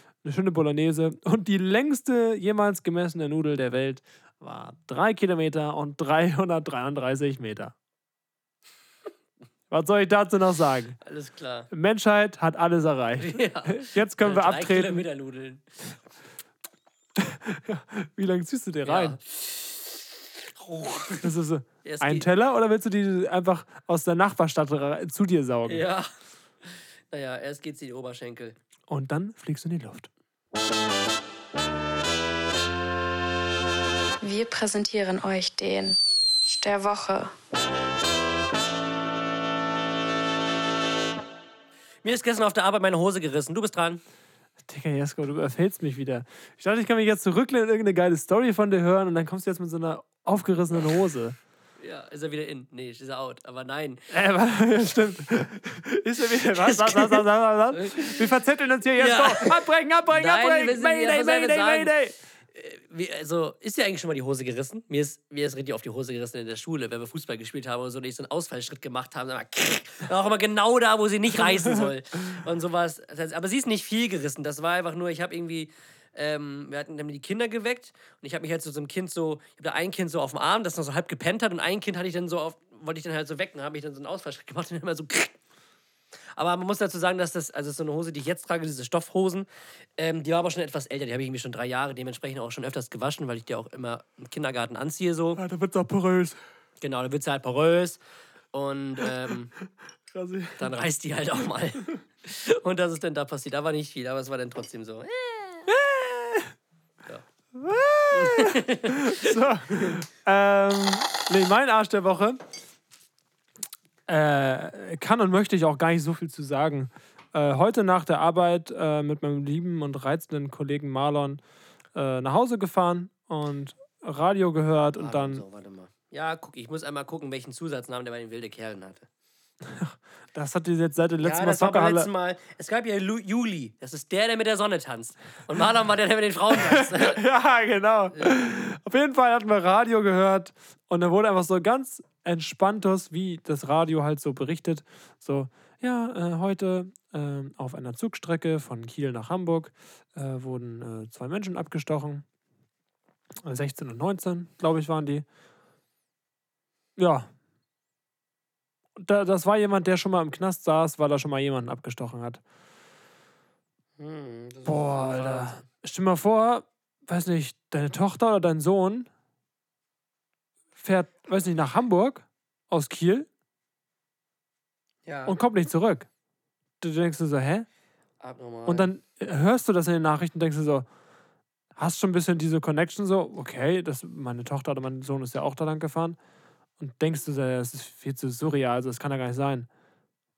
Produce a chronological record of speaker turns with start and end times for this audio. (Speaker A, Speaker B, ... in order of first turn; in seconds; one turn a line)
Speaker A: 0.2-7.7
Speaker A: 9.7-10.9
Speaker B: 11.0-11.7
Speaker A: 11.7-15.0
Speaker B: 13.2-15.6
Speaker A: 17.2-19.1
Speaker B: 18.8-20.0
Speaker B: 20.6-21.3
Speaker A: 21.2-25.8
Speaker B: 21.8-22.2
Speaker B: 25.7-26.1
Speaker B: 26.7-28.6
Speaker A: 28.9-30.1
Speaker C: 34.2-37.3
Speaker B: 42.0-44.0
Speaker A: 44.7-51.4
Speaker B: 51.8-54.0
Speaker A: 54.1-62.1
Speaker B: 56.5-58.3
Speaker B: 59.0-61.9
Speaker B: 62.5-85.3
Speaker A: 71.4-71.9
Speaker B: 86.3-95.4
Speaker A: 95.3-96.4
Speaker B: 96.8-98.0
Speaker B: 98.5-99.5
Speaker A: 100.1-100.7
Speaker B: 100.6-105.7
Speaker A: 105.7-106.5
Speaker A: 107.6-112.4
Speaker B: 108.1-110.0
Speaker A: 114.1-121.4
Speaker A: 121.9-125.4
Speaker B: 125.0-129.1
Speaker A: 129.6-132.1
Speaker B: 131.2-137.2
Speaker A: 136.5-152.2
Speaker A: 153.4-155.2
Speaker A: 157.0-157.3
Speaker A: 159.0-162.4
Speaker B: 164.0-165.6
Speaker A: 164.7-169.1
Speaker A: 170.8-173.3
Speaker B: 175.0-175.4
Speaker A: 175.2-176.1
Speaker A: 176.8-177.7
Speaker B: 178.2-178.9
Speaker A: 178.7-180.8
Speaker A: 181.8-186.2
Speaker A: 186.8-189.7